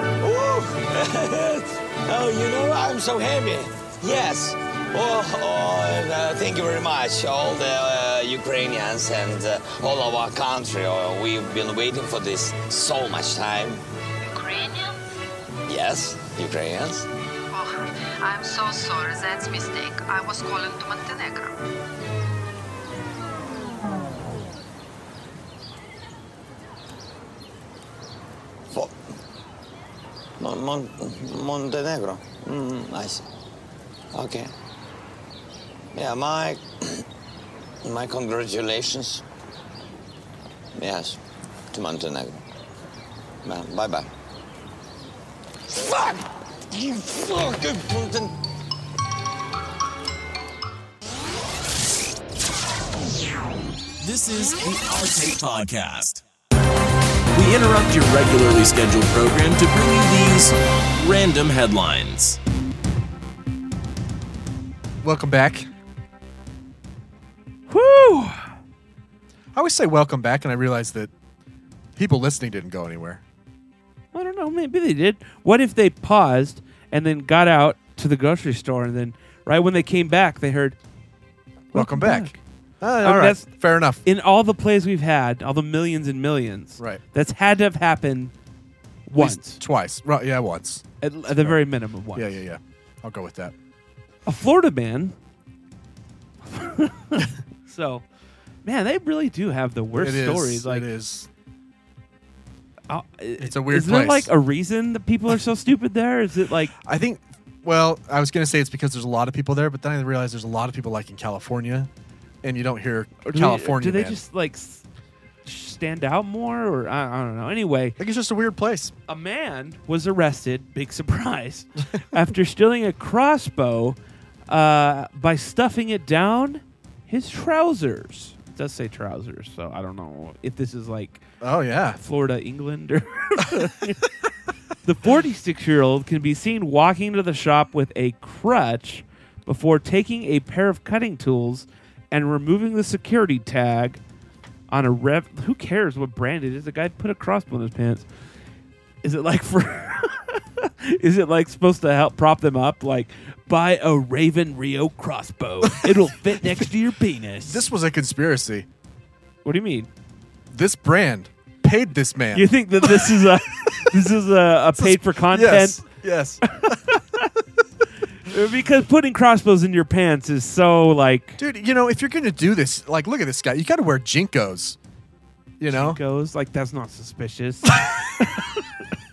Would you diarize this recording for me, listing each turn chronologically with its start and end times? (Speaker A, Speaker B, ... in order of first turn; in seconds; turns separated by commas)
Speaker A: 0.2-13.8, Speaker B: 14.2-15.0, Speaker A: 15.7-17.1, Speaker B: 17.5-21.6, Speaker A: 28.7-29.0, Speaker A: 30.4-33.2, Speaker A: 34.1-34.5, Speaker A: 35.9-37.0, Speaker A: 37.8-39.2, Speaker A: 40.8-41.2, Speaker A: 41.7-42.4, Speaker A: 43.4-44.1, Speaker A: 45.7-48.4, Speaker C: 54.0-56.2, Speaker C: 57.3-62.4, Speaker D: 65.0-65.7, Speaker E: 67.7-68.5, Speaker D: 69.5-71.1, Speaker D: 72.0-73.2, Speaker E: 74.1-80.8, Speaker D: 81.7-84.0, Speaker E: 81.7-82.4, Speaker E: 83.0-83.5, Speaker E: 84.0-88.3, Speaker E: 89.1-89.6, Speaker D: 89.2-91.6, Speaker E: 91.0-92.4, Speaker D: 92.2-93.5, Speaker E: 94.3-95.2, Speaker E: 96.5-98.0, Speaker E: 98.7-100.9, Speaker D: 100.0-101.3, Speaker E: 102.9-106.7, Speaker D: 103.4-104.3, Speaker D: 106.8-111.9, Speaker D: 112.4-114.2, Speaker E: 113.2-114.8, Speaker E: 115.5-118.0, Speaker D: 118.0-118.9, Speaker E: 119.1-131.2, Speaker D: 131.4-132.0, Speaker E: 132.0-134.1, Speaker E: 134.8-144.0, Speaker E: 144.7-148.1, Speaker E: 149.0-157.7, Speaker D: 155.6-156.7, Speaker D: 157.4-158.7, Speaker E: 159.4-159.9, Speaker D: 160.5-163.7, Speaker E: 162.3-165.8, Speaker D: 164.8-166.8, Speaker E: 166.6-167.3, Speaker E: 168.2-171.4, Speaker D: 171.4-174.8, Speaker D: 175.6-176.0, Speaker E: 175.7-178.6, Speaker D: 177.8-178.0